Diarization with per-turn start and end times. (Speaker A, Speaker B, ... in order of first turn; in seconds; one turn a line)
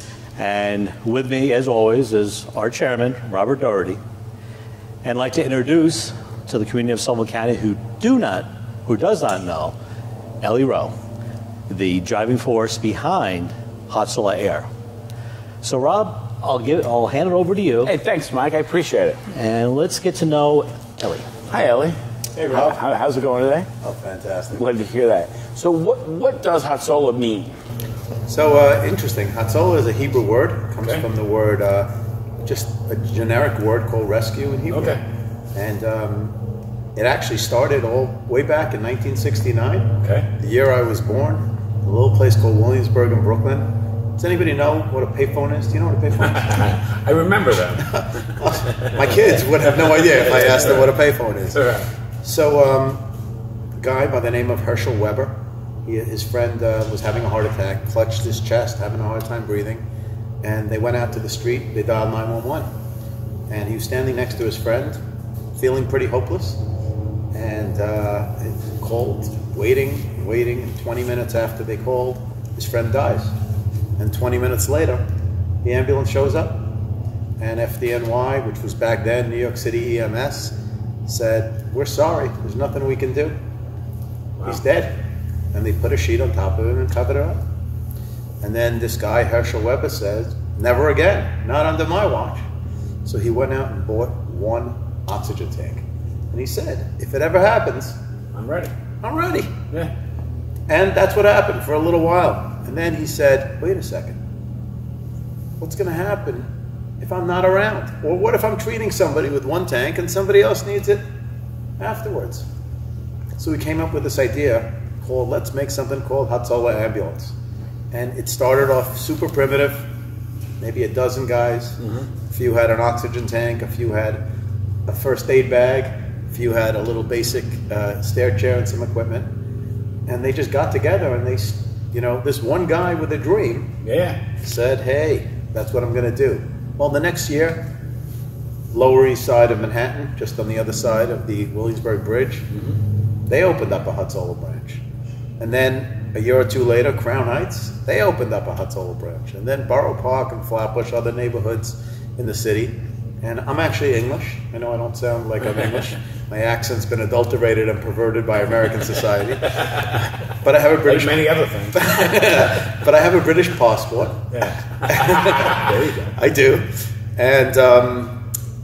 Speaker A: 0.4-4.0
Speaker A: 5.0-9.7
Speaker A: 10.4-10.9
Speaker A: 11.7-14.7
Speaker A: 15.6-17.9
Speaker B: 17.8-19.2
Speaker A: 19.3-21.4
Speaker B: 21.5-22.0
Speaker C: 22.3-22.8
Speaker B: 22.5-23.7
Speaker C: 23.8-24.6
Speaker B: 24.5-27.5
Speaker C: 28.3-35.0
Speaker B: 34.7-35.0
Speaker C: 35.5-36.4
Speaker C: 37.0-46.7
Speaker B: 40.0-40.3
Speaker B: 46.2-50.9
Speaker C: 47.8-53.1
Speaker B: 51.5-51.9
Speaker C: 53.8-59.9
Speaker C: 60.4-62.7
Speaker C: 63.5-65.0
Speaker C: 65.5-66.6
Speaker C: 67.3-73.4
Speaker C: 74.0-75.0
Speaker C: 75.6-76.7
Speaker C: 77.4-83.4
Speaker C: 84.4-84.9
Speaker C: 85.5-87.4
Speaker C: 88.4-92.4
Speaker C: 93.0-98.0
Speaker B: 98.3-98.7
Speaker C: 99.0-99.6
Speaker C: 100.7-104.2
Speaker C: 105.6-111.0
Speaker C: 111.8-112.5
Speaker C: 113.4-117.3
Speaker C: 117.9-119.9
Speaker C: 120.6-124.2
Speaker C: 124.9-129.3
Speaker C: 130.1-137.7
Speaker B: 133.8-134.2
Speaker C: 138.7-142.5
Speaker C: 143.3-144.8
Speaker C: 145.4-168.3
Speaker B: 160.8-162.4
Speaker B: 164.3-166.1